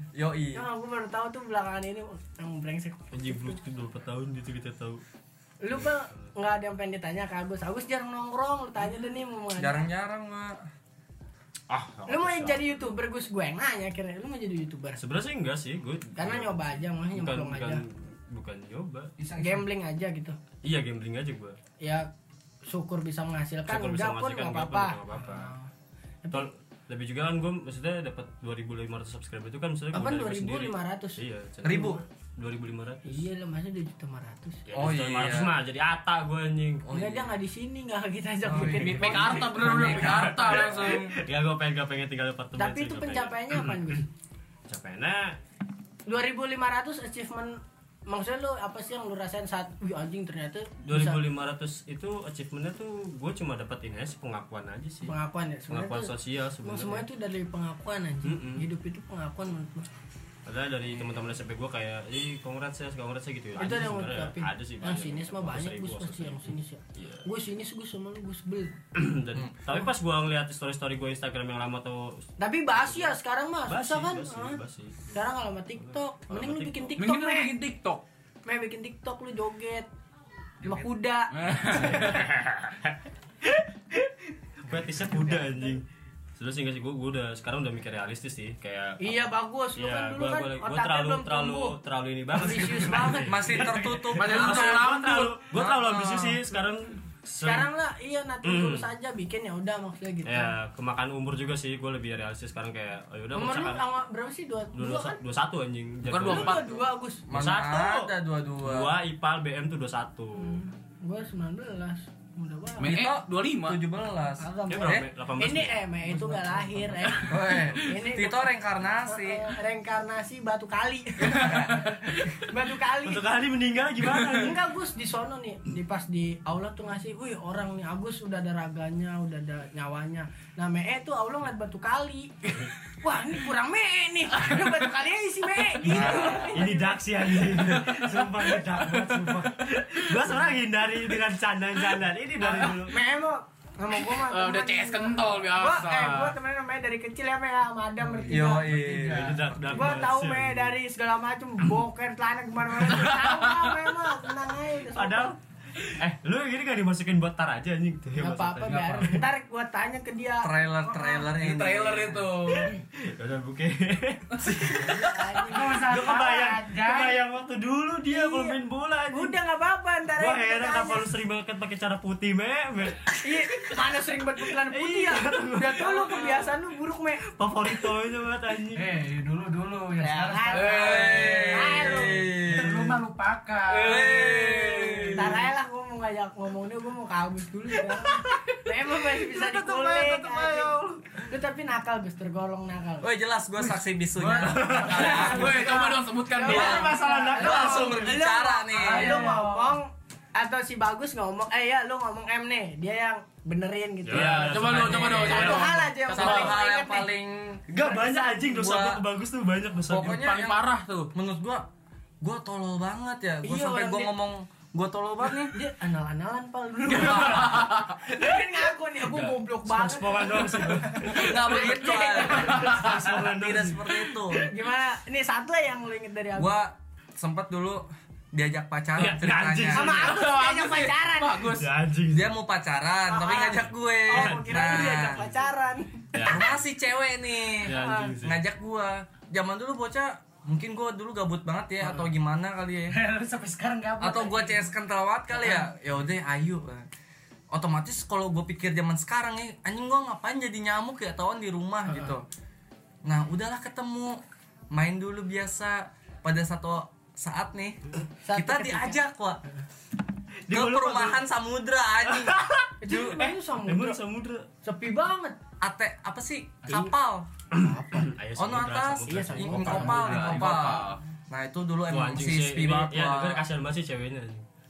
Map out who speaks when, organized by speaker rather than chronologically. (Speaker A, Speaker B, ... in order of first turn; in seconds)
Speaker A: 0.1-0.7, 9.6-10.6, 31.6-32.0, 34.7-35.6, 36.9-37.3, 38.5-40.9, 93.2-95.0, 95.5-96.4, 107.3-108.9, 112.8-115.1, 117.3-119.5, 135.8-136.6, 148.3-149.4, 160.4-162.3, 180.7-183.0, 183.8-185.4, 193.0-195.6, 196.5-199.2, 205.3-207.7, 208.4-209.0, 209.9-211.7, 212.2-215.6, 217.1-217.4, 221.2-224.5, 226.3-230.0, 232.1-235.2, 236.2-243.0, 244.0-246.9, 247.5-252.2, 253.0-254.2, 254.7-257.8, 258.3-259.4, 260.5-262.4, 265.6-267.3, 268.4-273.5
Speaker B: 0.5-3.6, 5.6-9.8, 12.1-15.0, 16.2-17.8, 19.4-20.4, 21.8-22.1, 22.7-25.4, 29.9-32.0, 33.1-34.7, 36.9-40.2, 42.6-44.1, 46.1-51.2, 55.0-59.9, 63.6-68.8, 72.4-74.6, 75.1-77.5, 78.5-79.9, 80.6-82.0, 85.3-85.7, 89.0-91.8, 92.3-93.7, 97.4-100.5, 103.3-105.2, 106.2-107.2, 110.4-112.9, 114.4-118.5, 119.1-123.2, 124.3-137.5, 142.6-148.8, 149.7-155.3, 158.2-161.3, 164.6-166.2, 168.1-168.6, 169.1-171.1, 173.2-177.3, 180.0-182.3, 185.1-193.1, 195.0-207.1, 213.4-214.1, 215.5-222.8, 224.3-226.5, 229.7-231.5, 233.1-236.1, 237.7-238.1, 245.4-245.7, 251.9-252.2, 258.2-259.0, 262.8-264.0, 264.6-265.4, 266.7-266.9, 267.6-268.1, 269.1-270.5
Speaker C: 3.1-5.0, 11.7-12.9, 15.0-19.1, 20.6-21.6, 23.7-25.5, 26.3-33.2, 34.7-36.9, 39.6-44.0, 44.7-45.4, 50.8-55.1, 55.7-57.1, 58.2-58.6, 60.5-67.3, 69.0-75.2, 75.8-77.0, 81.7-83.0, 83.5-84.1, 84.6-85.8, 86.4-97.7, 98.4-98.9, 100.2-103.8, 104.7-106.7, 107.3-108.1, 108.6-110.6, 114.7-117.2, 123.0-124.6, 135.9-143.0, 148.9-150.8, 154.9-159.2, 162.5-169.4, 170.2-173.8, 174.5-176.5, 177.4-179.0, 187.9-188.4, 189.1-191.0, 194.3-195.9, 196.4-197.9, 204.1-206.5, 207.7-210.2, 217.1-217.3, 219.1-221.5, 222.3-224.3, 229.0-230.3, 231.6-232.3, 234.1-235.3, 236.1-236.6, 237.6-238.4, 260.5-261.2, 262.1-264.5, 267.5-270.6, 271.9-274.4
Speaker D: 19.2-19.5, 148.1-149.7, 165.4-167.2, 178.7-180.8, 182.4-184.3, 194.2-195.9, 196.9-198.0, 198.7-199.8, 242.9-244.6
Speaker E: 38.6-41.2, 77.0-78.0, 81.3-82.2, 94.1-95.4, 106.1-106.8, 112.8-113.8, 144.1-146.3, 153.2-153.5, 161.3-162.8, 180.5-181.8, 183.7-185.4, 194.6-197.1, 204.1-206.3, 209.9-211.1, 217.4-217.9, 221.2-222.9, 229.9-231.7, 269.9-271.0